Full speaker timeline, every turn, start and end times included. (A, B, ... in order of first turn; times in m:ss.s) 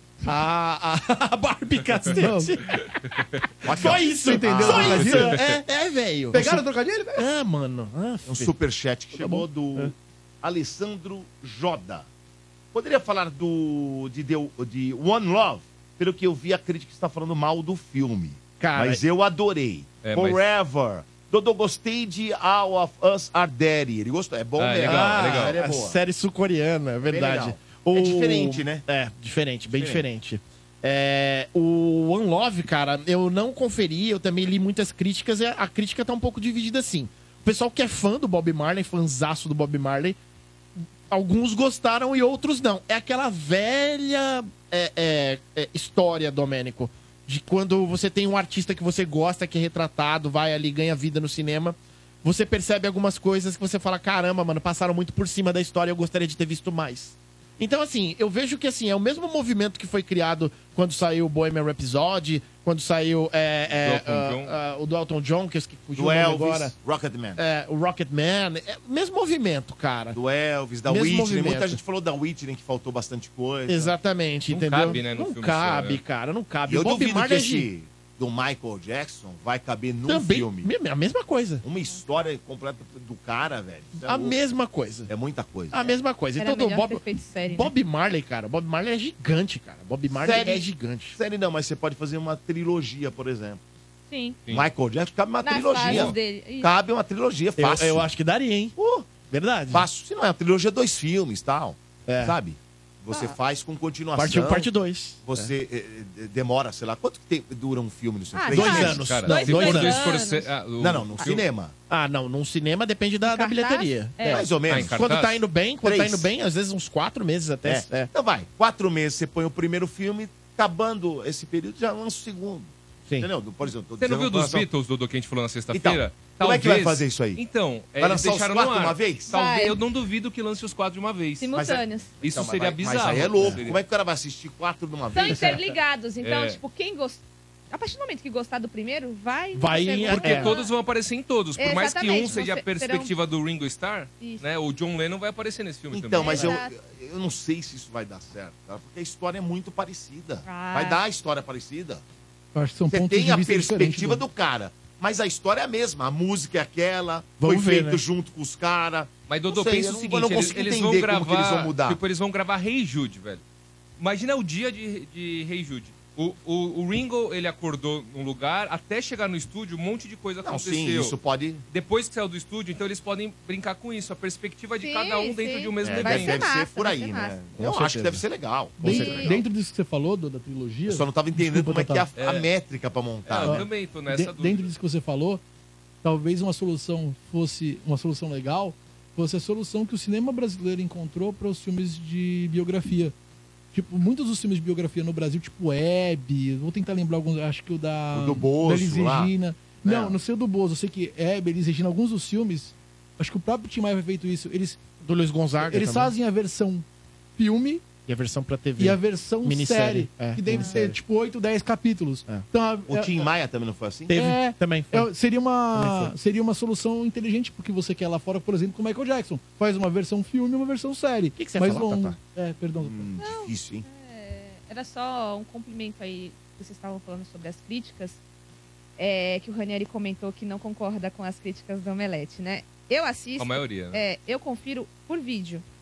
0:00.2-0:02.9 A
0:02.2-0:02.6 B
0:03.6-0:05.2 C
0:03.6-0:06.6 A
0:04.1-0:05.4 B
0:04.7-0:05.5 D
0:06.3-0:07.3 B
0:07.2-0:08.5 A
0:08.3-0:12.1 C
0:09.2-0:09.9 A
0:12.7-0:26.0 C
0:18.6-0:19.0 A
0:20.0-0:20.4 D
0:24.6-0:25.6 D
0:24.8-0:40.2 A
0:27.1-0:28.8 C
0:29.7-0:30.0 C
0:40.8-1:06.7 A
1:03.8-1:04.6 D
1:06.0-1:07.4 C
1:07.4-1:10.2 A
1:10.1-1:14.0 C
1:10.9-1:11.8 A
1:13.7-1:17.7 A
1:14.5-1:16.0 D
1:16.7-1:20.7 C
1:20.1-1:21.6 A
1:21.6-1:24.4 C
1:24.0-1:25.1 A
1:25.1-1:25.9 C
1:25.7-1:31.2 A
1:26.4-1:27.7 E
1:30.1-1:33.6 C
1:34.1-1:34.4 E
1:34.5-1:38.0 C
1:35.4-1:36.7 E
1:35.8-1:36.2 D
1:37.6-1:38.8 A
1:38.8-1:39.1 C
1:39.3-1:39.9 A
1:39.7-1:44.7 C
1:42.1-1:42.4 A
1:44.2-1:45.5 A
1:45.2-1:49.4 C
1:48.3-1:50.5 E
1:48.5-1:50.0 A
1:48.8-1:51.4 D
1:50.8-1:51.7 C
1:51.9-1:58.1 A
1:53.2-1:54.5 E
1:54.3-1:56.3 C
1:54.6-1:55.4 D
1:57.6-2:04.7 C
2:04.0-2:11.6 D
2:05.7-2:07.4 C
2:08.0-2:09.3 C
2:09.3-2:09.8 E
2:11.4-2:12.2 E
2:11.5-2:15.6 C
2:12.2-2:13.8 D
2:15.1-2:20.7 E
2:16.2-2:16.6 D
2:19.5-2:20.5 A
2:20.1-2:26.5 D
2:21.6-2:23.1 E
2:25.9-2:32.0 C
2:26.2-2:26.7 E
2:30.5-2:31.0 E
2:32.6-2:34.2 B
2:32.9-2:42.0 C
2:37.4-2:38.0 A
2:39.3-2:43.4 D
2:44.0-2:51.2 D
2:50.4-2:51.6 C
2:51.7-2:56.4 D
2:54.8-2:57.5 E
2:55.8-2:59.4 C
2:57.6-2:58.2 A
2:58.8-3:02.1 B
2:58.8-2:59.4 E
2:58.8-2:59.1 A
3:00.9-3:03.7 C
3:02.2-3:02.5 D
3:03.3-3:04.7 D
3:03.4-3:05.4 B
3:06.0-3:13.2 B
3:13.7-3:24.8 B
3:18.1-3:19.3 C
3:19.8-3:20.1 A
3:25.0-3:26.1 A
3:25.6-3:26.9 B
3:27.4-3:27.8 B
3:28.1-3:31.0 A
3:28.8-3:33.3 B
3:30.5-3:30.8 E
3:32.9-3:34.1 C
3:34.1-3:35.1 A
3:34.1-3:43.0 B
3:35.8-3:36.1 A
3:41.4-3:42.2 A
3:42.8-3:43.8 C
3:43.2-3:48.2 E
3:49.0-3:55.6 E
3:53.4-3:54.0 D